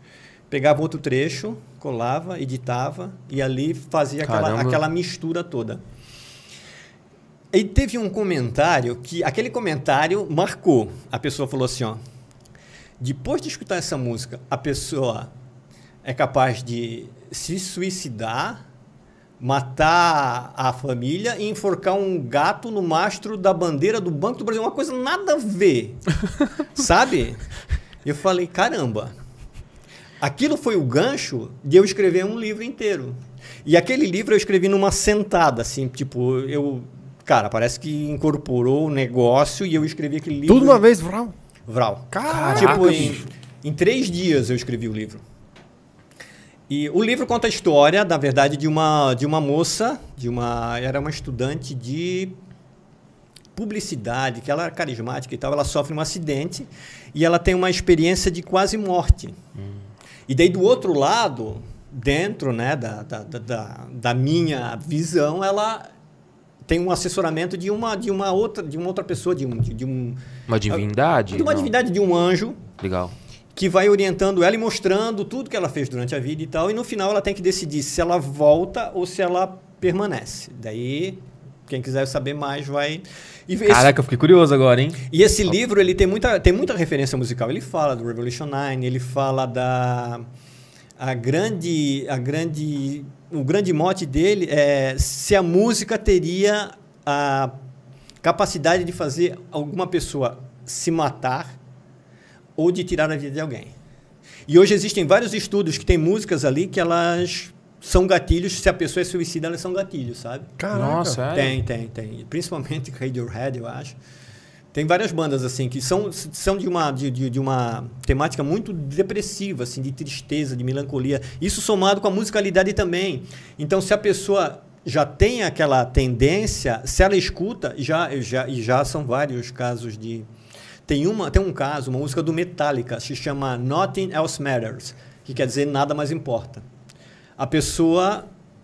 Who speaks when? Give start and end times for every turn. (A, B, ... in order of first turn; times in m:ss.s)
0:00.5-0:05.8 A
0:04.2-0:04.8 B
0:07.5-0:12.0 A
0:13.0-0:15.3 A
0:16.0-0:18.6 A
0:19.4-0:26.1 A
0:26.7-0:27.4 A
0:28.0-0:29.1 A
0:30.2-0:40.8 A
0:40.5-0:41.3 C
0:41.7-0:45.2 A
0:42.1-0:43.2 C
0:42.2-0:43.3 B
0:46.7-0:52.4 A
0:53.6-0:59.4 A
1:00.3-1:05.9 A
1:06.7-1:12.6 A
1:10.5-1:11.7 B
1:12.8-1:13.1 B
1:13.6-1:23.9 A
1:23.6-1:25.0 B
1:25.1-1:30.2 A
1:31.0-1:37.5 A
1:38.2-1:41.6 A
1:42.6-1:43.7 A
1:44.5-1:50.5 A
1:50.6-1:51.2 C
1:50.7-1:51.6 B
1:51.3-1:54.0 A
1:54.7-2:10.3 A
2:10.9-2:16.6 A
2:17.4-2:18.3 A